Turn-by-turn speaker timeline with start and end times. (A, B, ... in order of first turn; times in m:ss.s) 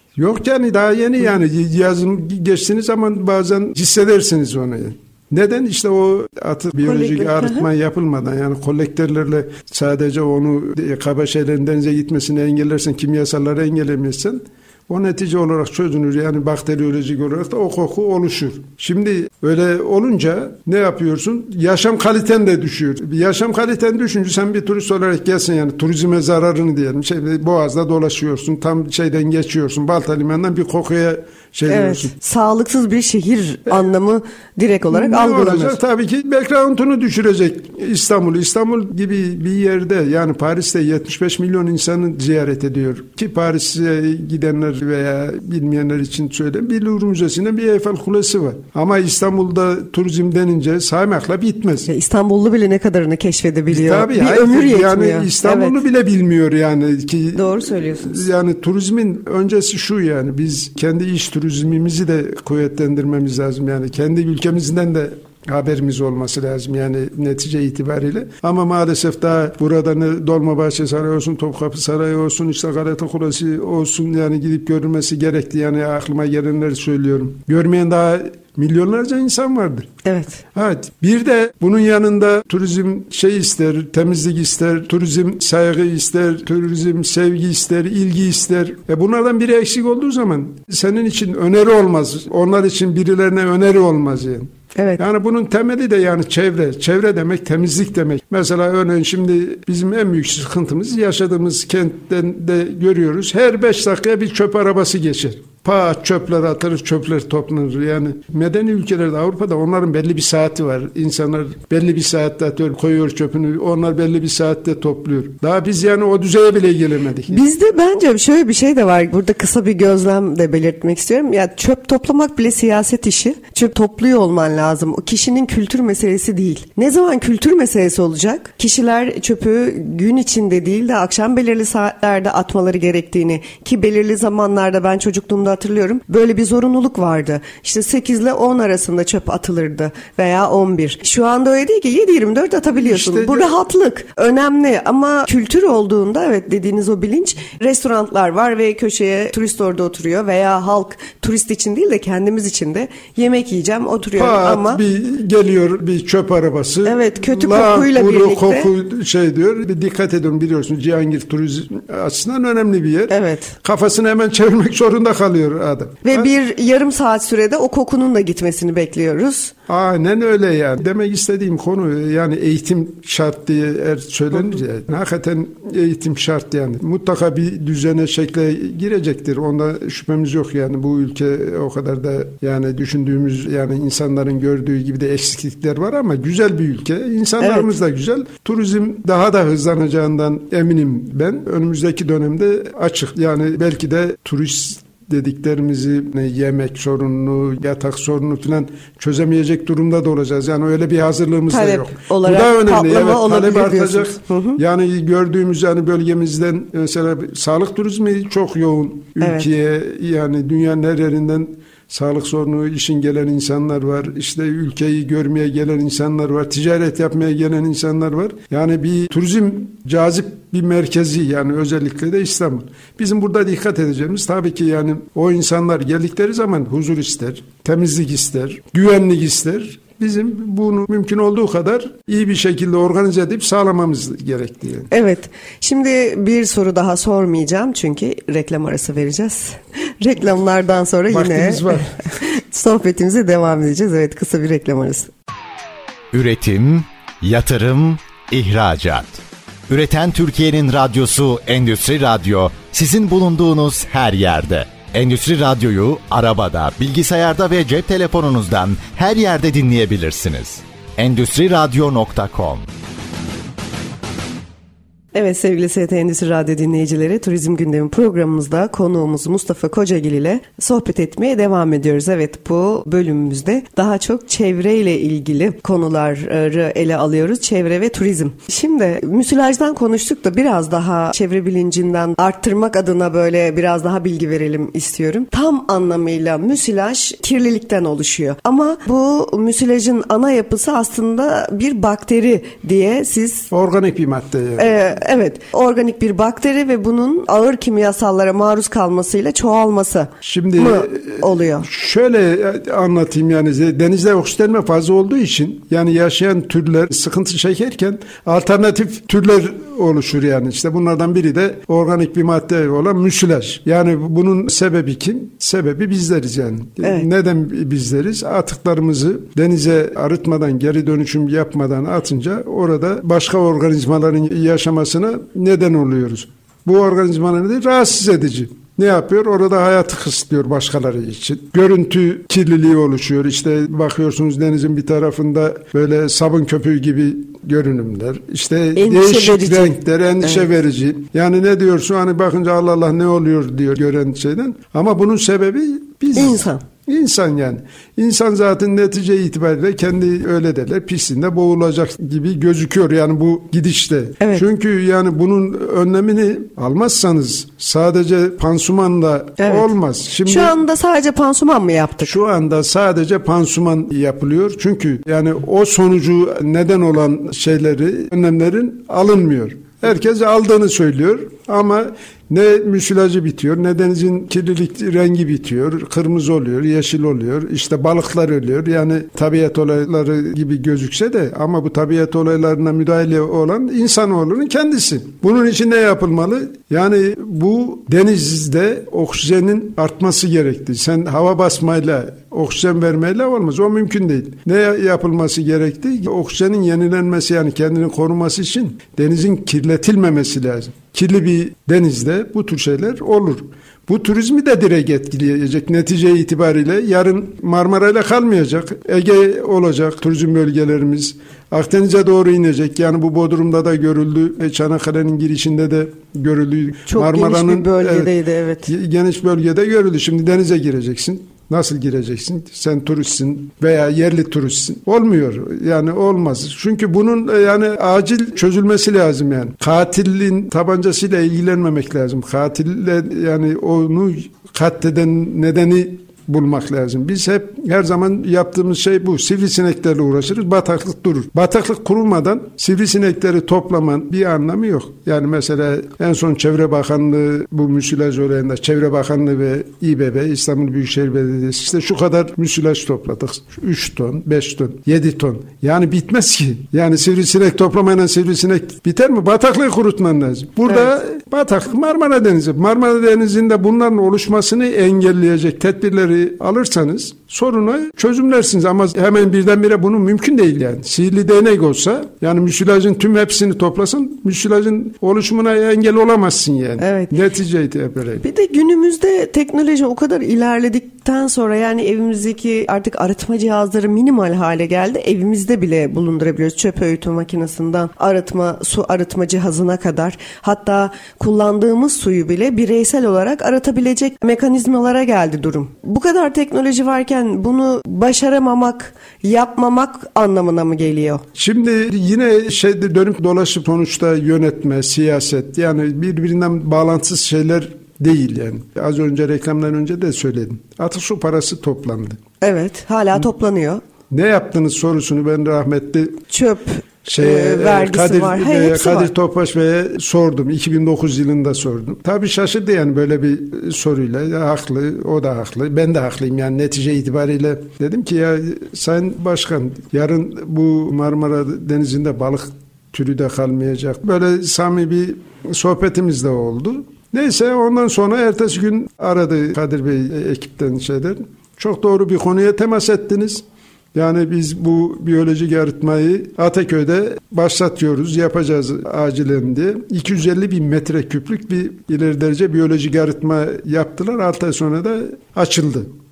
0:00.2-0:32.1 A
0:06.8-0:07.6 B
0:31.7-0:35.8 B
0:34.9-0:51.9 A
0:51.9-0:55.8 B
0:53.7-1:19.9 A
0:57.3-0:58.3 B
1:20.0-1:20.4 B
1:20.5-1:57.4 A
1:34.8-1:35.0 B
1:57.3-2:34.8 B
2:22.7-2:23.5 A
2:34.2-2:46.3 A
2:36.8-2:38.7 B
2:43.1-2:43.5 B
2:46.0-2:49.5 B
2:49.7-3:54.9 A
3:07.4-3:07.7 B
3:21.5-3:24.6 B
3:29.2-3:29.4 B
3:54.9-4:05.1 B
4:01.1-4:02.0 A
4:06.1-4:22.6 C
4:25.1-4:53.5 B
4:53.5-4:54.7 A
4:54.6-5:01.6 B
5:00.2-6:00.6 A
5:38.7-5:40.4 B
5:46.1-5:46.6 B
5:59.4-5:59.7 B
6:00.2-6:02.1 B
6:02.0-6:58.1 A
6:56.9-6:58.7 B
6:58.6-7:58.2 A
7:56.8-7:57.1 B
7:58.2-8:21.2 B
8:21.3-8:32.2 A
8:32.4-8:33.8 B
8:34.1-8:36.2 A
8:36.3-8:39.1 B
8:37.0-9:15.9 A